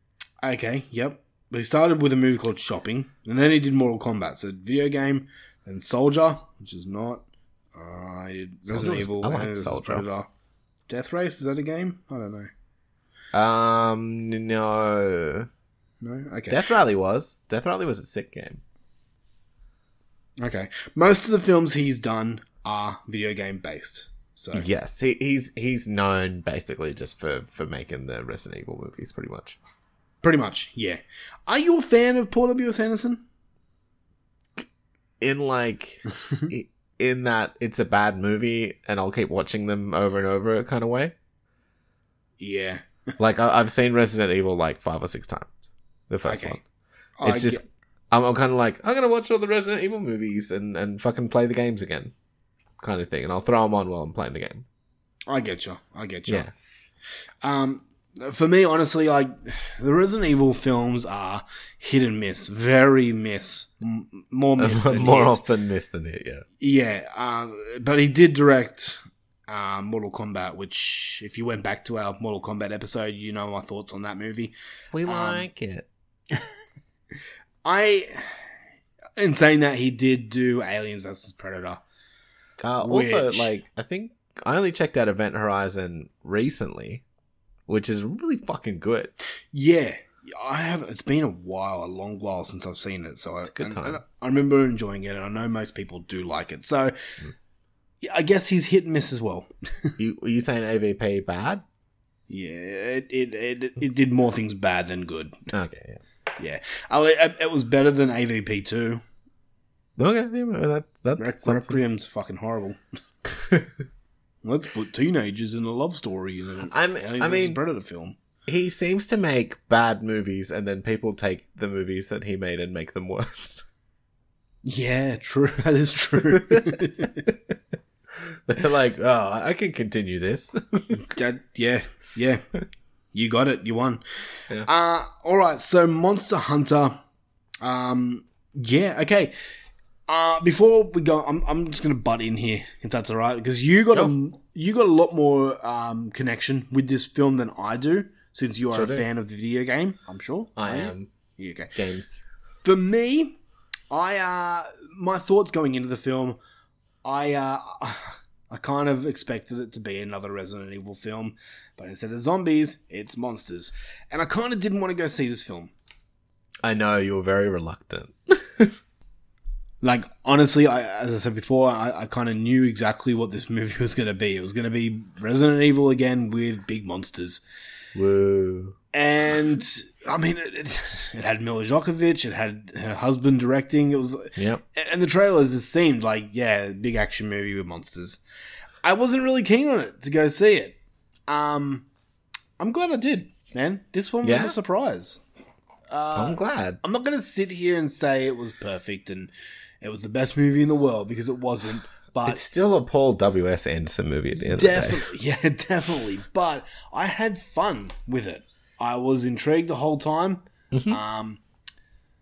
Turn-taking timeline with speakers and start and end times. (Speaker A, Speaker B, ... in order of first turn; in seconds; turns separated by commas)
Speaker A: 0.4-10.3, Speaker B: 8.7-10.1, Speaker A: 10.9-12.5, Speaker B: 13.3-15.5, Speaker A: 16.0-16.6, Speaker B: 16.5-18.6, Speaker A: 20.4-24.6, Speaker B: 24.5-29.6, Speaker A: 30.2-33.2, Speaker B: 35.2-41.1, Speaker A: 42.4-42.9, Speaker B: 43.2-45.5, Speaker B: 46.1-46.6, Speaker A: 46.2-46.6, Speaker A: 47.2-47.6, Speaker B: 47.2-52.1, Speaker B: 52.8-54.6, Speaker A: 55.3-56.5, Speaker A: 57.4-65.4, Speaker B: 64.6-66.4, Speaker A: 66.6-74.5, Speaker B: 74.9-75.9, Speaker A: 75.0-75.5, Speaker A: 77.6-78.4, Speaker A: 79.2-81.8, Speaker B: 82.6-87.0, Speaker A: 82.8-83.5, Speaker B: 87.7-89.1, Speaker A: 89.5-96.9, Speaker B: 93.4-94.0, Speaker A: 98.0-99.9, Speaker B: 100.0-101.6, Speaker A: 102.3-105.4, Speaker B: 105.5-106.0, Speaker A: 106.4-109.0, Speaker B: 110.0-111.8, Speaker A: 111.2-112.8, Speaker A: 114.4-118.2, Speaker B: 116.7-117.6, Speaker B: 118.5-123.6, Speaker A: 124.6-127.2, Speaker B: 126.5-126.8, Speaker B: 128.5-130.9, Speaker A: 130.9-132.4, Speaker A: 133.1-134.0, Speaker A: 134.6-137.0, Speaker A: 137.6-139.3, Speaker A: 140.1-151.7, Speaker B: 148.7-149.1, Speaker B: 150.6-151.1, Speaker B: 151.7-152.2, Speaker A: 152.6-153.4, Speaker A: 153.9-156.4, Speaker A: 157.0-165.7, Speaker B: 166.6-168.7, Speaker A: 169.8-177.4, Speaker B: 177.9-178.8, Speaker A: 178.9-188.2, Speaker B: 184.4-184.6, Speaker A: 188.8-190.8, Speaker A: 191.3-191.8, Speaker A: 192.6-195.2, Speaker B: 194.2-194.6, Speaker A: 195.9-199.3, Speaker B: 196.2-196.8, Speaker A: 199.8-202.4, Speaker B: 202.2-205.1, Speaker A: 204.4-211.4, Speaker B: 210.7-211.0